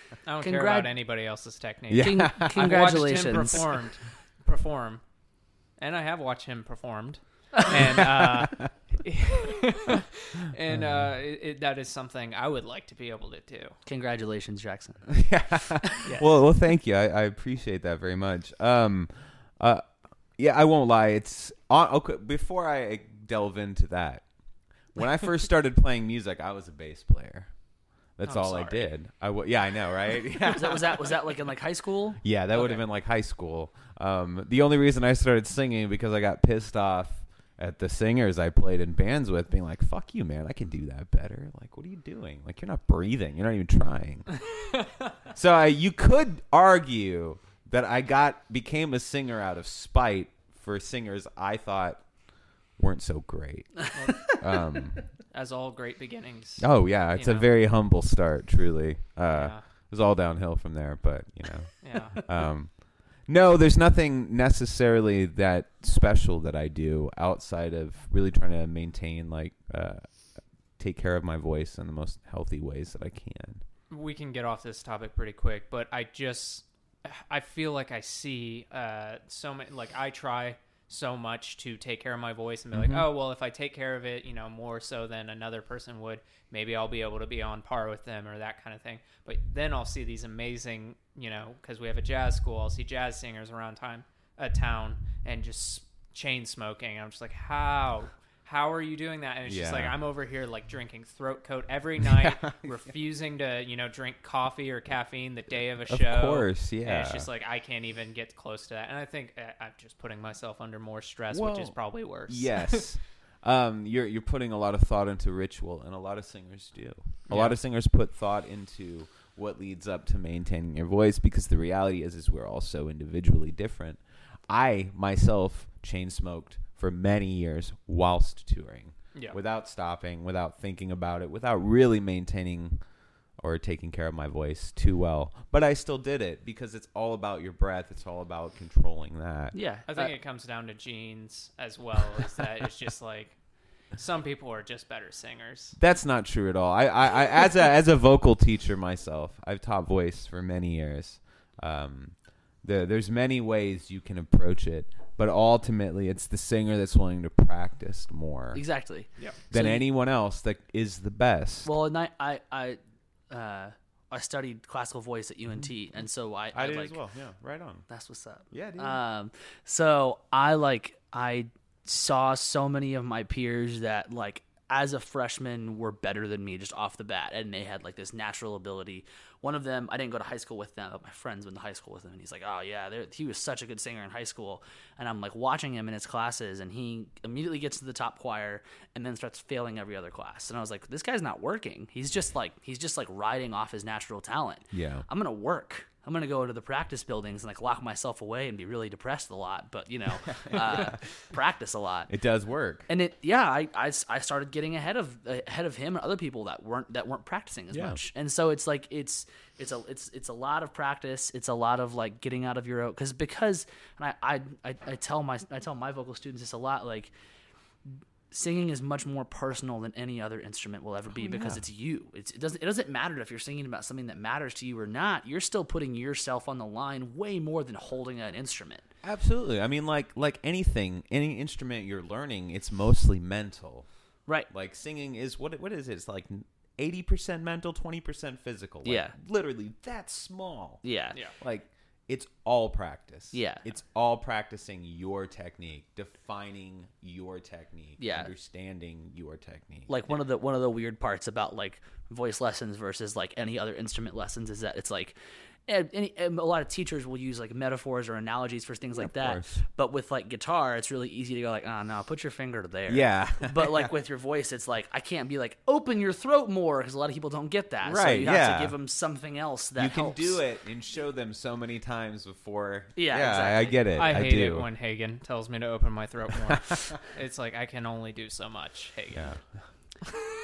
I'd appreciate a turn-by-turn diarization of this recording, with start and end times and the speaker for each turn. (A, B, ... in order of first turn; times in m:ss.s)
0:00.2-0:05.0 A
0:00.4-0:00.9 B
0:01.9-0:02.9 C
0:02.0-0:03.6 B
0:05.8-0:13.7 A
0:07.8-0:08.7 C
0:10.7-0:11.1 C
0:13.8-0:15.2 B
0:15.1-0:19.8 C
0:16.0-0:16.3 A
0:20.4-0:24.3 C
0:24.8-0:27.6 C
0:28.1-0:31.2 C
0:28.2-0:28.9 A
0:30.5-0:32.2 B
0:32.2-0:44.5 C
0:32.5-0:32.8 A
0:45.3-0:55.0 C
0:53.9-0:54.4 A
0:55.3-0:57.5 A
0:56.6-1:13.6 C
0:59.3-0:59.6 A
1:01.8-1:02.2 A
1:13.9-1:52.8 A
1:22.7-1:23.1 C
1:39.4-1:40.0 C
1:42.0-1:42.9 C
1:45.9-1:47.3 C
1:51.3-2:19.6 C
1:57.3-1:57.6 A
2:19.5-2:20.1 B
2:19.9-2:25.8 A
2:25.8-2:38.6 C
2:38.5-2:39.8 B
2:39.5-2:41.7 C
2:41.6-2:42.8 B
2:43.3-2:47.0 B
2:46.5-2:47.9 C
2:47.9-3:22.1 B
2:48.5-2:49.0 C
3:14.7-3:15.1 C
3:20.3-3:21.0 C
3:22.1-3:22.9 C
3:22.9-3:37.1 B
3:27.7-3:28.0 C
3:38.3-3:48.9 B
3:41.1-3:41.6 C
3:49.0-4:09.9 C
3:58.8-3:59.1 B
4:00.8-4:01.2 B
4:03.3-4:03.6 B
4:08.0-4:08.3 B
4:09.9-4:15.1 B
4:15.7-4:30.4 B
4:19.0-4:19.6 C
4:22.9-4:23.9 C
4:27.8-4:28.8 C
4:29.8-4:34.7 C
4:33.0-4:33.8 B
4:33.9-4:39.4 A
4:39.1-4:39.6 C